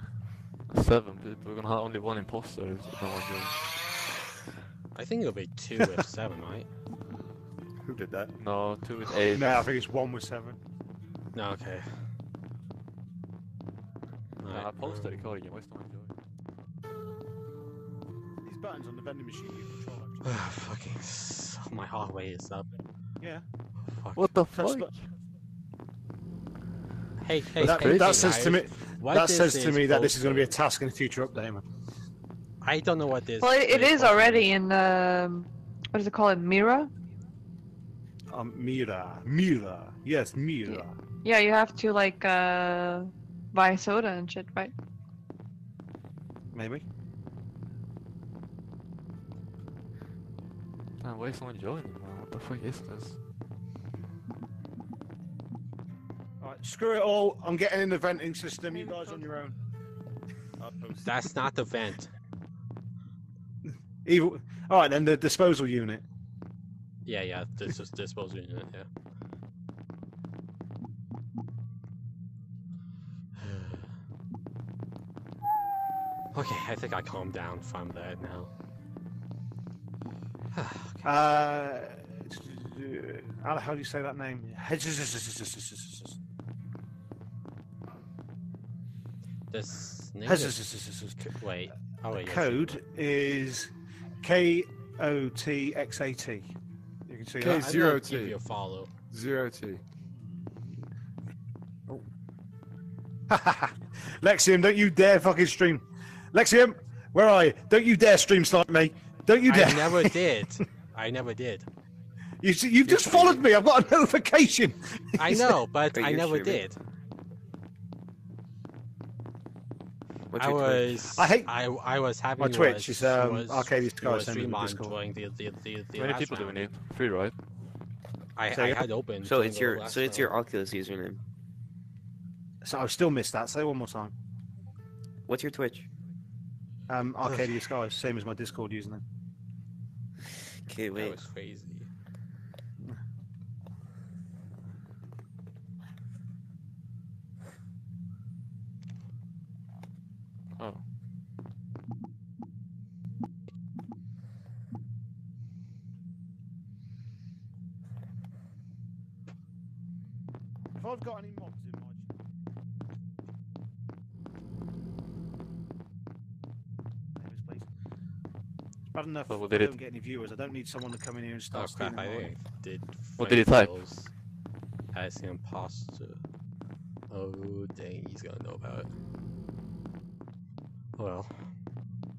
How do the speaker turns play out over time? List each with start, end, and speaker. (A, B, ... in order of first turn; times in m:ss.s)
0:00.7-0:03.6 A
0:04.9-0:06.7 B
0:08.4-0:09.6 A
0:09.2-0:10.6 C
0:11.3-0:12.1 B
0:14.4-0:15.3 B
0:14.5-0:16.1 A
0:18.4-0:20.2 C
0:20.2-0:22.7 B
0:24.0-0:24.3 B
0:24.2-0:24.9 A
0:24.4-0:25.0 C
0:27.2-0:30.5 B
0:27.6-0:31.6 C
0:27.6-0:28.2 A
0:32.6-0:34.5 B
0:33.4-0:36.9 D
0:38.3-0:41.0 C
0:40.6-0:44.7 D
0:46.5-0:46.8 C
0:51.0-0:53.2 A
0:56.4-0:59.5 C
1:01.0-1:02.1 B
1:04.0-1:06.0 C
1:07.0-1:08.9 B
1:13.4-1:13.9 B
1:16.3-1:18.5 B
1:20.5-1:21.1 B
1:21.0-1:26.2 C
1:29.5-1:30.6 B
1:30.2-1:31.3 C
1:31.2-1:32.8 B
1:32.1-1:33.7 C
1:34.2-1:36.5 C
1:37.1-1:37.7 C
1:37.4-1:38.9 B
1:43.3-1:50.2 C
1:49.4-1:51.6 B
1:52.4-1:55.6 C
1:55.2-1:56.8 B
1:55.9-1:56.7 E
2:00.3-2:01.0 E
2:00.3-2:06.7 B
2:01.1-2:01.5 C
2:02.4-2:05.0 C
2:06.0-2:07.3 A
2:08.4-2:10.4 B
2:08.5-2:08.9 C
2:09.2-2:11.2 E
2:12.6-2:14.1 C
2:15.3-2:15.9 E
2:16.9-2:19.0 C
2:17.2-2:17.6 B
2:20.7-2:21.3 E
2:20.9-2:21.9 B
2:40.8-2:42.0 C
2:47.2-2:47.7 C
2:48.9-2:52.4 C
2:49.3-2:49.8 A
2:51.5-2:54.1 B
2:53.2-2:53.7 A
2:54.9-2:56.2 B
2:57.1-2:58.9 B
3:01.0-3:01.5 B